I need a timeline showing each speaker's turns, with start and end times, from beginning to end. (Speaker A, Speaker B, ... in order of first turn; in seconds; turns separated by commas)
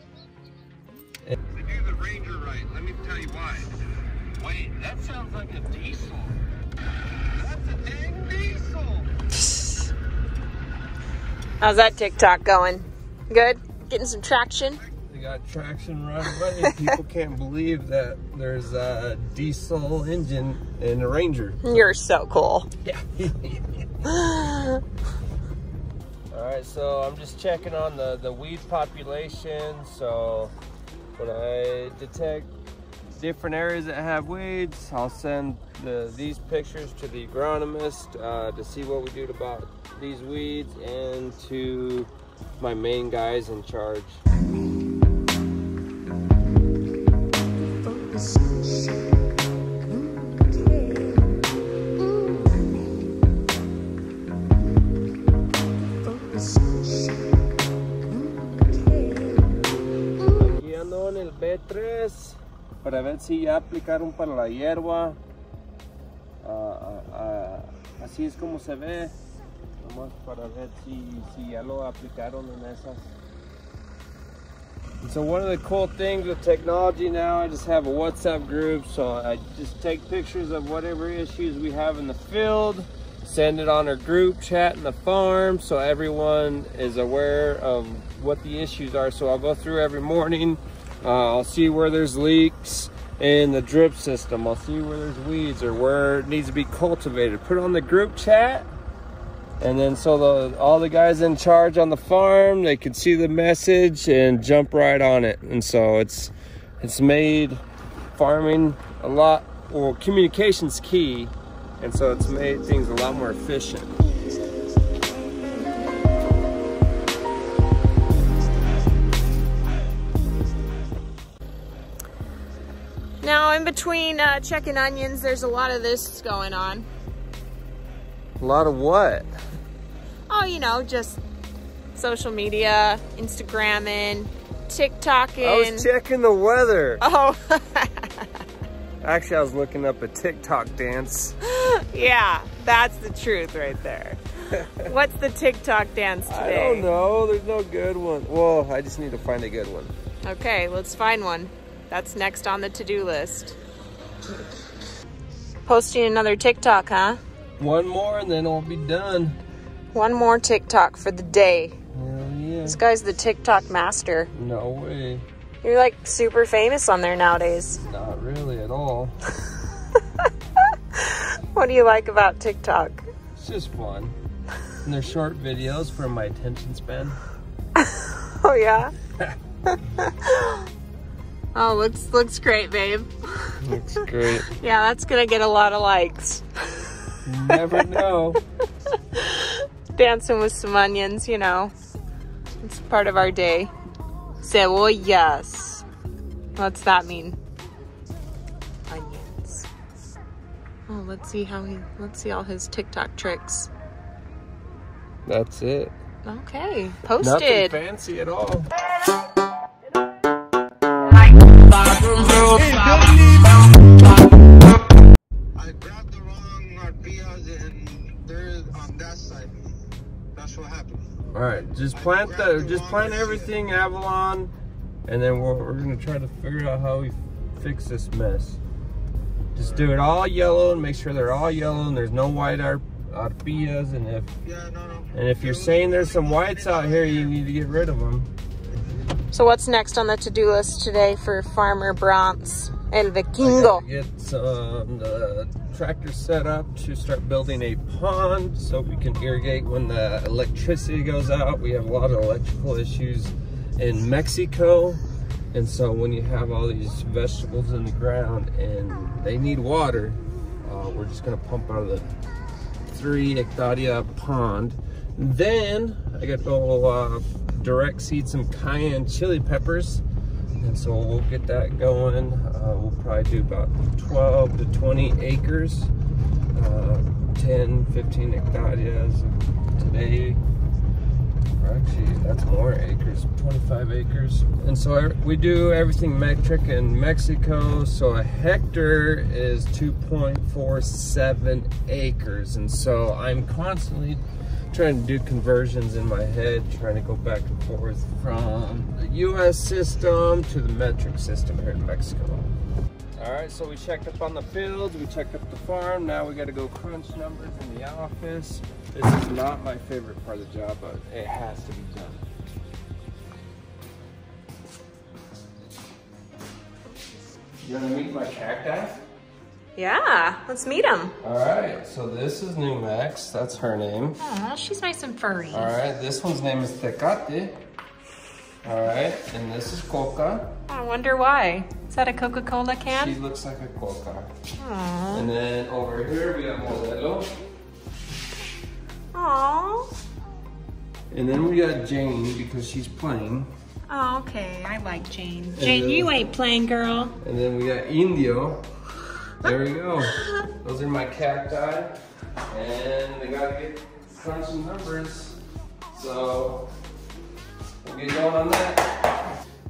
Speaker A: 1.2-3.7, Speaker A: 4.4-6.4, Speaker A: 7.3-9.1, Speaker B: 9.5-9.8, Speaker B: 11.6-14.8, Speaker A: 14.9-21.9, Speaker B: 21.6-22.7, Speaker A: 22.8-23.8, Speaker B: 24.1-24.8, Speaker A: 26.3-30.5, Speaker A: 31.2-32.5, Speaker A: 33.1-44.2, Speaker A: 60.3-65.2, Speaker A: 66.4-69.1, Speaker A: 69.8-73.1, Speaker A: 75.0-98.7, Speaker A: 99.6-107.6, Speaker A: 108.1-114.0, Speaker B: 123.2-126.8, Speaker A: 128.4-129.3, Speaker B: 130.3-131.2, Speaker B: 131.9-135.9, Speaker A: 135.4-137.0, Speaker B: 137.0-138.3, Speaker A: 139.0-141.4, Speaker B: 141.4-146.9, Speaker A: 144.6-144.8, Speaker A: 146.2-149.9, Speaker B: 150.2-153.6, Speaker B: 155.7-157.2, Speaker A: 157.6-159.4, Speaker B: 159.9-161.7, Speaker A: 161.9-162.8, Speaker B: 162.6-164.3, Speaker A: 164.3-165.2, Speaker B: 165.6-167.8, Speaker A: 167.8-169.2, Speaker B: 170.2-173.1, Speaker A: 173.3-174.2, Speaker A: 174.8-177.2, Speaker B: 177.8-178.9, Speaker B: 179.7-180.7, Speaker B: 181.5-183.6, Speaker A: 183.6-184.5, Speaker B: 184.5-187.8, Speaker A: 187.2-188.4, Speaker B: 189.2-191.7, Speaker B: 192.6-193.7, Speaker B: 194.4-195.8, Speaker B: 196.6-197.4, Speaker B: 198.9-199.7, Speaker B: 200.9-203.7, Speaker A: 205.2-205.9, Speaker B: 206.2-207.8, Speaker A: 207.2-208.7, Speaker B: 211.7-213.2, Speaker C: 212.8-213.2, Speaker C: 215.6-219.6, Speaker C: 220.3-221.1, Speaker A: 221.3-224.5, Speaker C: 222.1-223.3, Speaker A: 225.1-228.6, Speaker A: 229.5-234.3, Speaker C: 234.5-236.8, Speaker A: 235.1-238.3, Speaker B: 239.3-243.8, Speaker A: 243.4-255.0, Speaker A: 255.5-262.1, Speaker A: 262.9-270.0, Speaker A: 270.6-275.9, Speaker A: 276.5-280.4, Speaker A: 281.6-302.5, Speaker A: 303.2-312.2, Speaker A: 317.6-319.0, Speaker B: 319.8-321.1, Speaker A: 321.2-324.2, Speaker B: 324.2-325.7, Speaker A: 325.5-327.6, Speaker A: 328.6-330.5, Speaker B: 330.7-333.2, Speaker A: 332.9-334.3, Speaker B: 334.6-335.3, Speaker A: 335.1-337.3, Speaker B: 339.1-339.9, Speaker A: 341.1-343.5, Speaker B: 343.9-347.1, Speaker A: 345.6-346.1, Speaker A: 347.2-348.6, Speaker A: 349.4-351.9, Speaker A: 352.5-355.4, Speaker A: 355.9-356.7, Speaker A: 357.8-358.9